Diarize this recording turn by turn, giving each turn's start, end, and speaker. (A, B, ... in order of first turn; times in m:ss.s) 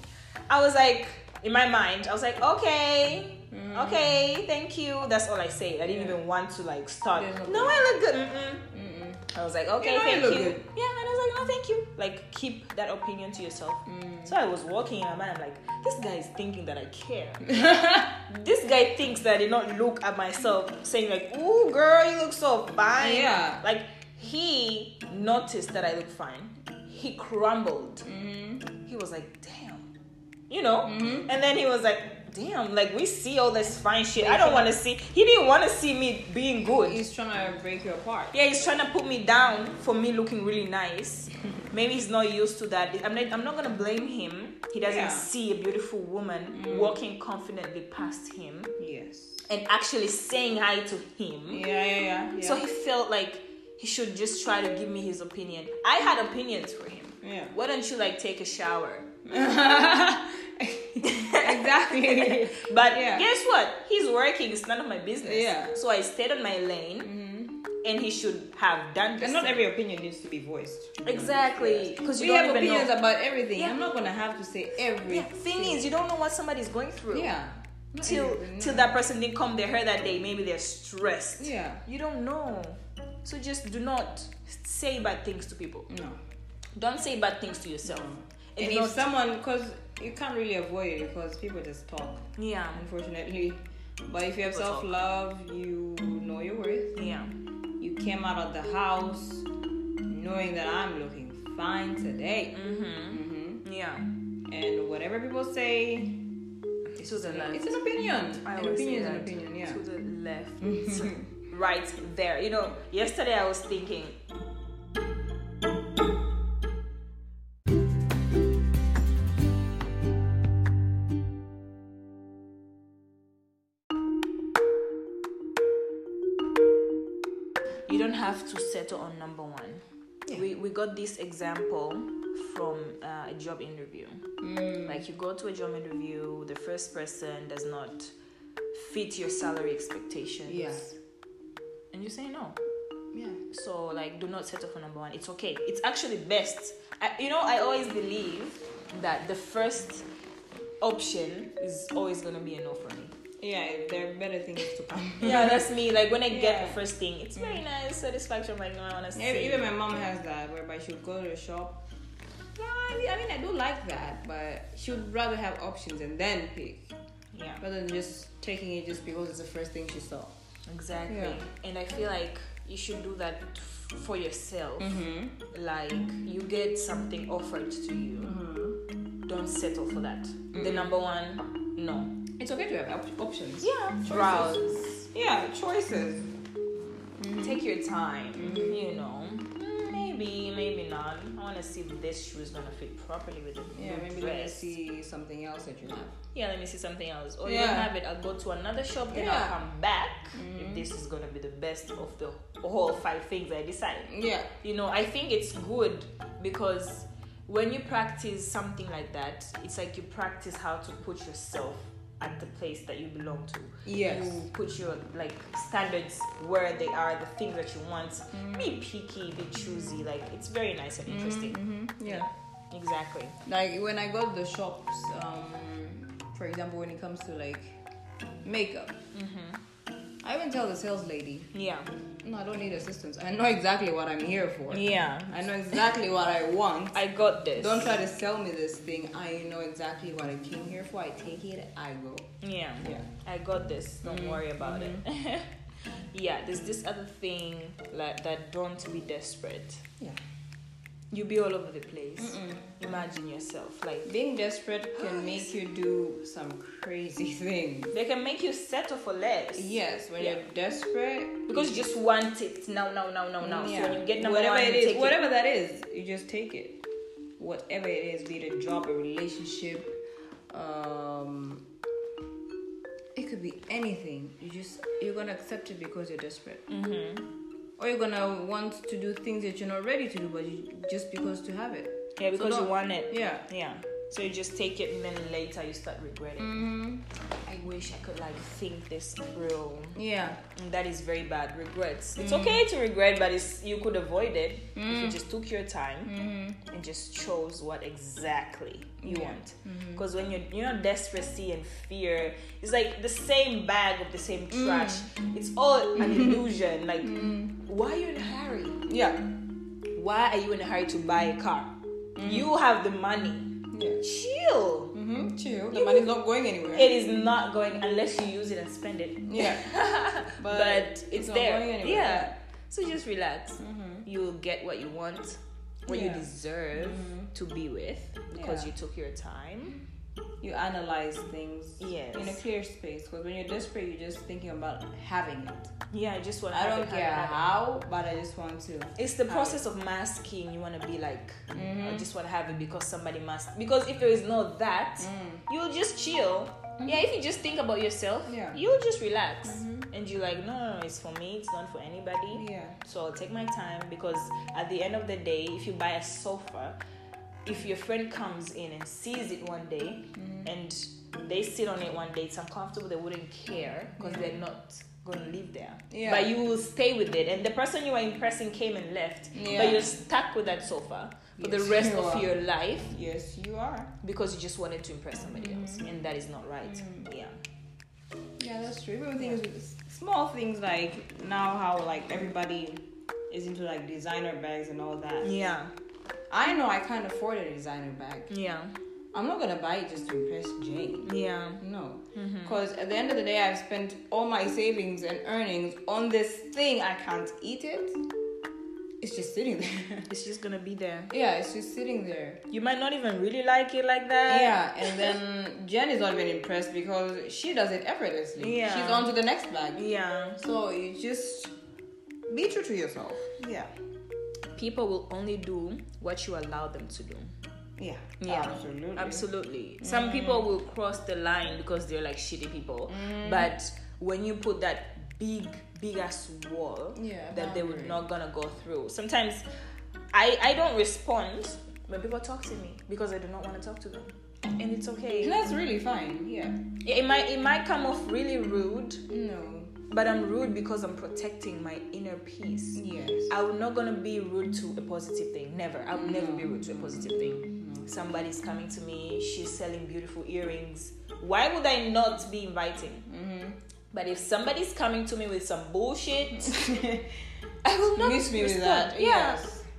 0:00.5-0:08.6 A
0:03.5-0:04.2 B
0:05.8-0:06.2 B
0:07.1-0:07.8 B
0:08.7-0:09.2 B
0:09.3-0:17.6 A
0:09.8-0:10.7 B
0:13.8-0:14.3 B
0:17.4-0:18.2 B
0:18.3-0:28.1 A
0:23.0-0:23.6 B
0:28.0-0:28.7 B
0:28.7-0:29.9 A
0:30.5-0:37.0 A
0:30.8-0:31.3 B
0:34.2-0:34.7 B
0:36.6-0:38.4 B
0:38.3-0:48.7 A
0:44.8-0:45.3 B
0:46.5-0:47.0 B
0:48.8-0:49.4 B
0:49.4-0:51.6 A
0:51.5-0:52.6 B
0:52.4-0:59.2 A
0:57.2-0:57.5 B
0:59.2-1:03.3 B
1:01.0-1:07.1 A
1:05.2-1:05.8 B
1:07.0-1:07.6 B
1:07.7-1:09.7 A
1:09.2-1:15.9 B
1:11.0-1:12.9 A
1:15.0-1:17.3 A
1:17.1-1:18.9 B
1:18.0-1:25.9 A
1:21.4-1:21.8 B
1:25.9-1:26.2 B
1:26.8-1:29.1 A
1:27.8-1:37.0 B
1:32.4-1:32.8 A
1:34.5-1:34.9 A
1:37.0-1:37.3 A
1:37.8-1:39.5 B
1:40.0-1:42.6 B
1:42.5-1:44.1 A
1:43.1-1:43.6 B
1:44.5-1:46.2 B
1:46.9-1:54.2 A
1:47.0-1:49.8 B
1:50.6-1:51.3 B
2:07.9-2:14.3 A
2:14.4-2:15.0 B
2:14.8-2:18.1 A
2:18.7-2:21.0 A
2:20.5-2:20.8 B
2:21.9-2:22.6 A
2:23.1-2:23.4 B
2:23.5-2:30.0 A
2:30.8-2:33.1 A
2:33.4-2:35.7 B
2:35.2-2:39.7 A
2:36.3-2:36.8 B
2:39.1-2:41.8 B
2:42.6-2:46.9 B
2:47.3-2:47.6 A
2:47.6-2:50.3 B
2:50.7-2:58.3 A
2:51.1-2:51.4 B
2:54.8-2:55.4 B
2:58.2-2:58.8 B
2:59.2-3:02.2 A
3:00.5-3:00.9 B
3:02.4-3:06.3 B
3:03.6-3:05.1 A
3:07.1-3:07.6 B
3:07.4-3:14.7 A
3:08.3-3:08.9 B
3:13.7-3:16.2 B
3:16.3-3:43.4 A
3:17.4-3:17.9 B
3:19.1-3:19.6 B
3:20.3-3:20.8 B
3:24.1-3:24.5 B
3:33.8-3:34.5 B
3:38.3-3:38.8 B
3:41.1-3:42.3 B
3:43.4-3:47.8 B
3:48.4-3:49.0 B
3:49.1-3:49.6 A
3:50.2-3:51.5 B
3:51.5-3:51.9 A
3:52.2-3:57.0 B
3:54.7-3:55.8 A
3:56.9-3:57.9 A
3:57.5-4:02.3 B
4:02.4-4:05.5 A
4:02.8-4:03.1 B
4:04.0-4:05.0 B
4:06.1-4:09.8 A
4:11.1-4:14.1 A
4:12.2-4:12.7 B
4:14.0-4:17.9 B
4:14.9-4:15.5 A
4:17.9-4:20.4 A
4:19.6-4:21.8 B
4:21.5-4:25.2 A
4:23.4-4:26.8 B
4:27.4-4:30.0 B
4:30.5-4:31.6 B
4:33.1-4:36.6 B
4:36.7-4:37.3 A
4:37.8-4:43.4 B
4:42.2-4:46.6 A
4:46.4-4:47.0 B
4:47.4-4:50.0 A
4:49.9-4:50.4 B
4:50.5-4:56.1 A
4:52.2-4:52.6 B
4:54.8-4:55.2 B
4:56.0-4:56.7 B
4:56.6-5:08.8 A
4:59.0-5:00.0 B
5:04.5-5:05.1 B
5:06.0-5:06.4 B
5:07.0-5:07.6 B
5:08.8-5:09.3 B
5:09.9-5:14.9 A
5:12.2-5:12.5 B
5:13.7-5:14.0 B
5:14.9-5:16.9 B
5:15.7-5:16.1 A
5:16.7-5:29.8 A
5:19.2-5:19.7 B
5:20.4-5:22.3 B
5:23.6-5:24.1 B
5:25.9-5:27.3 B
5:28.3-5:28.7 B
5:30.4-5:35.7 B
5:31.8-5:32.4 A
5:35.9-5:37.4 A
5:36.5-5:39.6 B
5:39.0-5:56.8 A
5:41.5-5:42.1 B
5:45.0-5:45.4 B
5:46.8-5:47.0 B
5:48.2-5:48.6 B
5:49.4-5:49.9 B
5:52.3-5:52.8 B
5:57.4-6:12.9 A
6:00.1-6:00.5 B
6:04.0-6:04.3 B
6:05.9-6:06.3 B
6:09.3-6:10.0 B
6:11.4-6:12.3 B
6:12.9-6:13.9 B
6:14.0-6:17.4 A
6:15.3-6:15.9 B
6:16.6-6:17.1 B
6:18.4-6:25.4 B
6:25.2-6:25.7 A
6:26.3-6:28.3 B
6:28.3-6:28.7 A
6:29.1-6:38.0 B
6:31.0-6:31.6 A
6:32.1-6:32.6 A
6:39.0-6:40.1 B
6:40.1-6:41.1 A
6:41.1-6:42.4 B
6:42.5-6:45.1 A
6:44.2-6:49.8 B
6:48.4-6:49.2 A
6:49.7-6:50.4 A
6:50.4-6:51.5 B
6:52.3-6:53.7 B
6:54.5-6:57.3 A
6:57.8-6:59.3 B
6:58.2-7:09.4 A
6:59.8-7:00.5 B
7:02.9-7:03.5 B
7:06.9-7:08.0 B
7:10.1-7:15.4 A
7:15.2-7:16.6 B
7:16.8-7:19.0 A
7:19.1-7:19.8 B
7:19.9-7:33.0 A
7:22.7-7:23.3 B
7:25.9-7:27.9 B
7:33.1-7:33.6 B
7:33.9-7:36.8 A
7:36.3-7:37.2 B
7:37.6-7:39.4 A
7:37.9-7:39.6 B